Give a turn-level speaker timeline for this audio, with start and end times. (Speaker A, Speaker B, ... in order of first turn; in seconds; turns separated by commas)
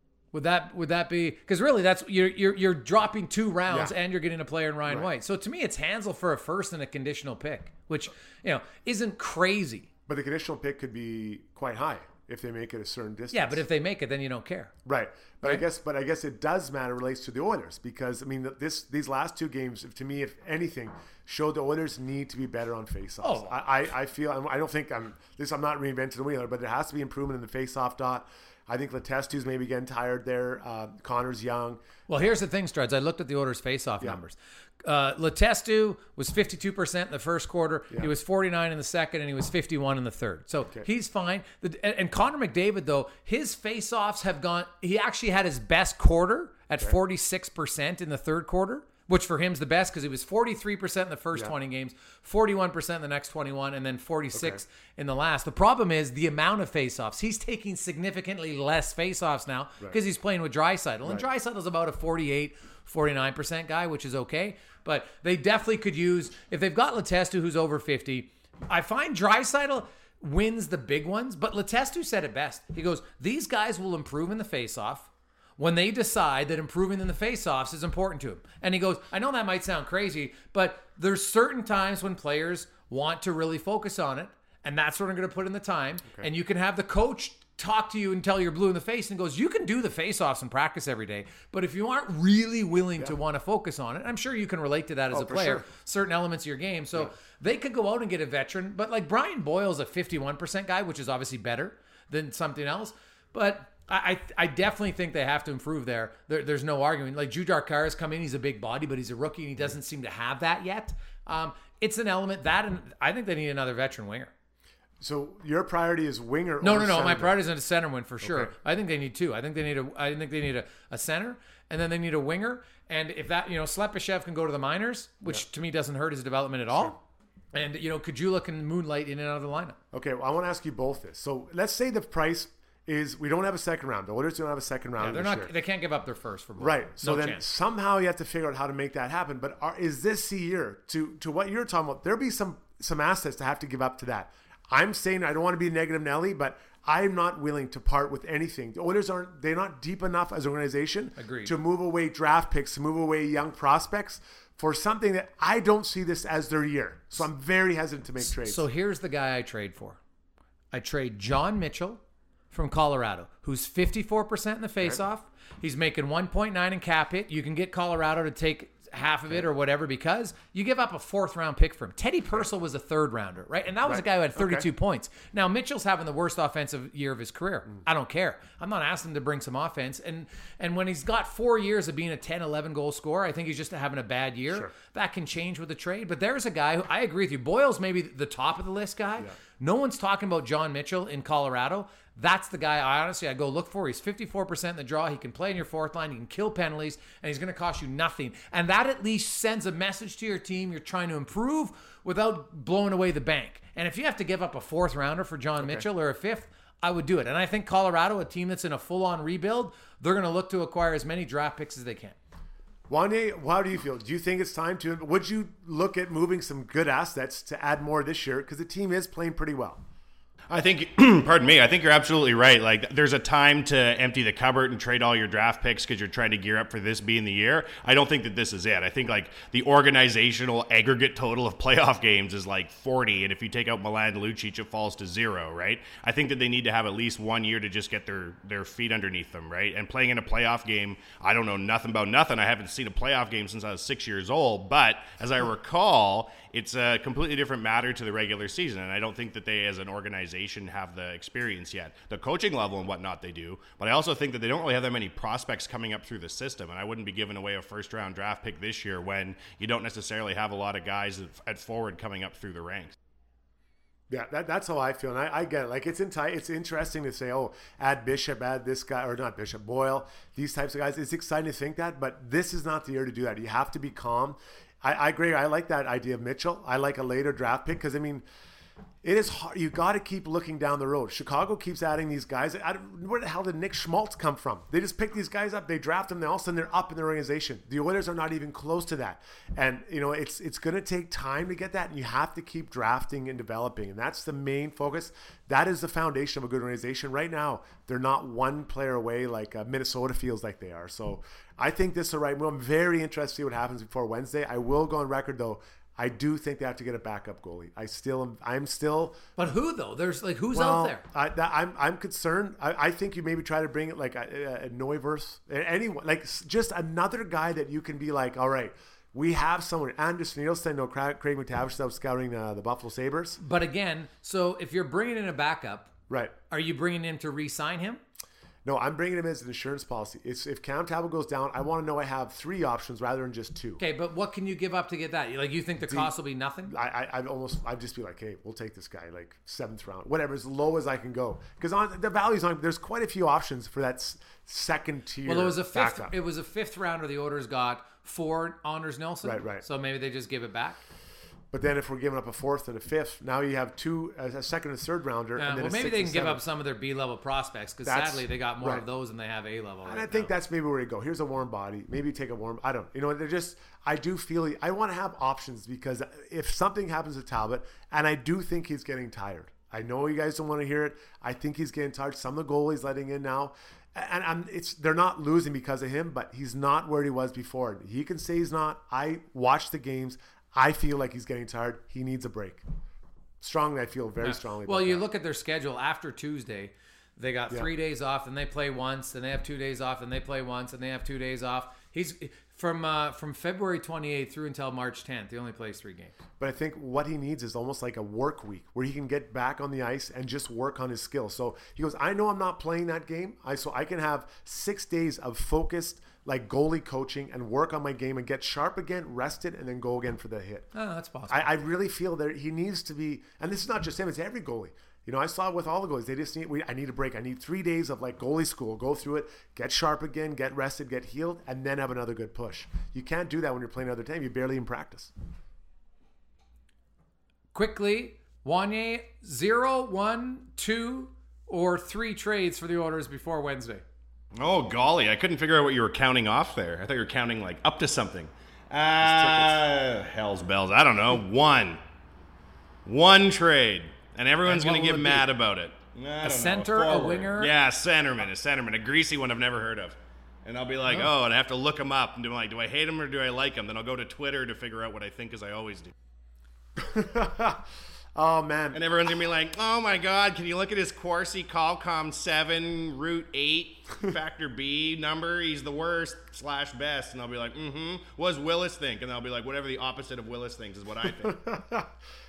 Speaker A: 0.3-9.9, Speaker B: 3.7-4.0, Speaker B: 10.1-13.6, Speaker A: 13.3-14.7, Speaker B: 14.8-31.8, Speaker A: 23.2-23.6, Speaker A: 32.1-114.3, Speaker B: 54.3-54.6, Speaker B: 95.1-95.7, Speaker B: 115.0-117.4, Speaker A: 116.6-127.0, Speaker B: 118.2-118.5, Speaker A: 127.5-129.8, Speaker B: 129.9-135.5, Speaker A: 135.0-137.4, Speaker B: 136.6-158.7, Speaker A: 151.2-151.5, Speaker A: 158.2-160.0, Speaker A: 160.7-162.0, Speaker A: 162.5-212.2, Speaker B: 173.8-174.7, Speaker B: 205.6-205.8, Speaker B: 212.9-219.8, Speaker C: 220.5-262.9, Speaker B: 264.1-278.2, Speaker B: 279.0-309.2, Speaker A: 309.4-311.0, Speaker B: 310.5-323.4, Speaker A: 323.4-325.9, Speaker B: 326.1-326.4, Speaker A: 326.5-328.0, Speaker B: 328.6-333.8, Speaker A: 333.8-336.7, Speaker B: 335.8-346.1, Speaker A: 345.2-350.8, Speaker B: 349.2-349.6, Speaker B: 351.5-356.4, Speaker A: 355.4-360.3, Speaker B: 357.8-358.8, Speaker B: 359.8-382.6, Speaker B: 383.4-385.0, Speaker A: 384.2-396.1, Speaker B: 396.4-410.7, Speaker A: 410.7-411.5, Speaker B: 411.3-425.1, Speaker A: 427.5-433.8, Speaker C: 434.4-441.8, Speaker B: 439.0-439.6, Speaker C: 442.9-455.9, Speaker A: 444.4-445.2, Speaker A: 446.2-447.5, Speaker B: 456.8-458.8, Speaker C: 458.7-471.4, Speaker B: 471.2-471.9